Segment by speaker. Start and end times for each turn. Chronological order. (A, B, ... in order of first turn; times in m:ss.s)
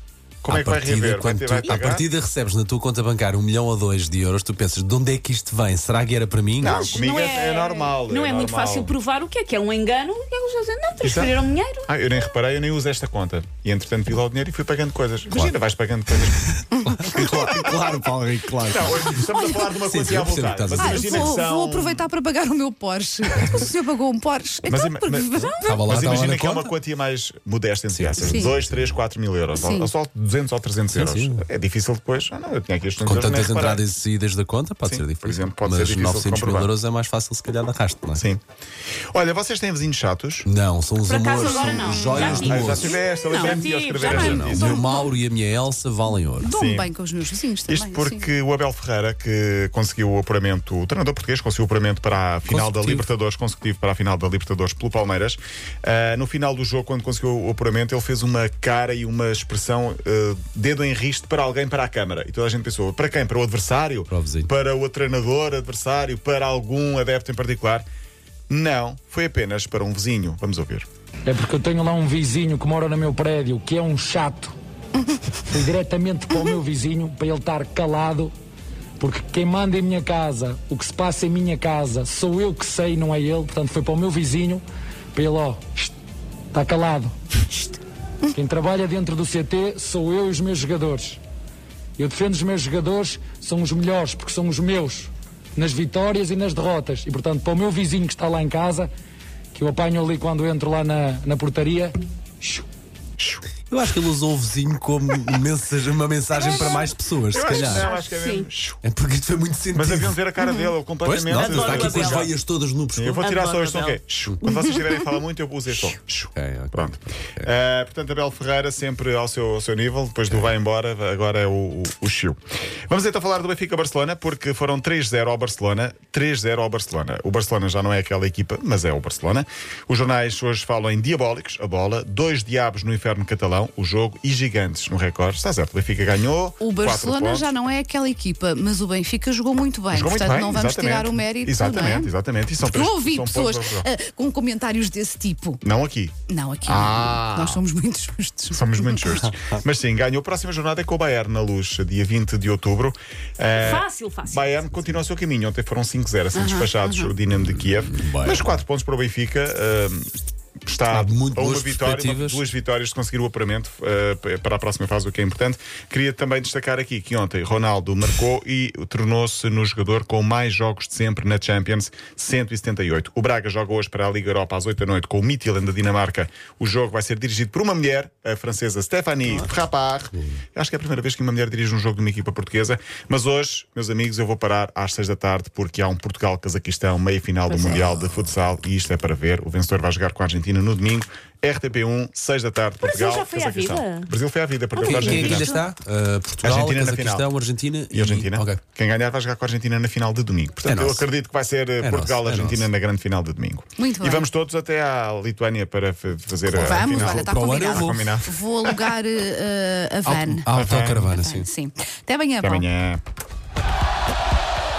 0:00.4-0:02.1 A
0:00.5-0:06.8 B
0:06.6-0:09.0 A
0:06.6-0:11.9 C
0:11.0-0:16.4 A
0:16.3-0:19.2 B
0:17.2-0:17.7 A
0:18.7-0:22.0 A
0:19.3-0:19.7 D
0:19.9-0:21.3 B
0:20.7-0:25.8 D
0:24.6-0:33.8 A
0:25.6-0:26.7 B
0:27.9-0:29.0 B
0:28.2-0:28.5 D
0:29.6-0:29.9 D
0:30.9-0:31.4 B
0:33.0-0:38.2 B
0:34.8-0:36.7 A
0:38.1-0:38.4 A
0:39.1-0:40.5 A
0:40.4-0:43.0 B
0:41.0-0:44.8 C
0:41.4-0:42.3 D
0:42.1-0:44.8 A
0:44.0-0:46.5 B
0:44.3-0:45.0 D
0:46.4-0:48.2 D
0:46.5-0:46.9 A
0:47.7-1:07.8 A
0:52.5-0:53.0 B
1:04.1-1:04.5 B
1:08.5-1:10.9 A
1:11.2-1:14.5 E
1:15.5-1:18.3 E
1:19.0-1:25.9 E
1:26.5-1:27.1 E
1:28.3-1:31.2 E
1:32.0-1:38.9 E
1:39.5-1:42.6 E
1:43.2-1:43.4 A
1:43.7-1:47.9 B
1:47.3-1:48.8 A
1:47.6-1:48.5 C
1:48.8-1:50.2 B
1:49.7-1:52.3 A
1:50.4-1:50.7 D
1:51.0-1:53.2 B
1:51.3-1:52.3 C
1:52.9-2:17.5 A
1:53.2-1:54.0 C
1:56.3-1:57.5 B
2:16.6-2:22.1 D
2:19.9-2:23.9 A
2:22.6-2:25.6 D
2:25.6-2:27.6 A
2:26.3-2:29.2 D
2:28.5-2:40.1 A
2:29.2-2:29.6 B
2:33.5-2:34.7 C
2:36.3-2:37.1 D
2:37.4-2:38.6 B
2:40.6-3:15.5 A
2:40.9-2:42.4 B
3:12.8-3:14.1 C
3:14.7-3:15.6 C
3:14.8-3:18.6 B
3:16.4-3:17.3 A
3:17.9-3:28.9 A
3:20.6-3:21.1 B
3:21.8-3:22.7 B
3:23.8-3:24.3 D
3:26.5-3:30.5 D
3:26.9-3:28.1 B
3:30.0-3:31.5 B
3:30.5-3:31.1 A
3:31.0-3:32.6 D
3:32.4-3:33.0 A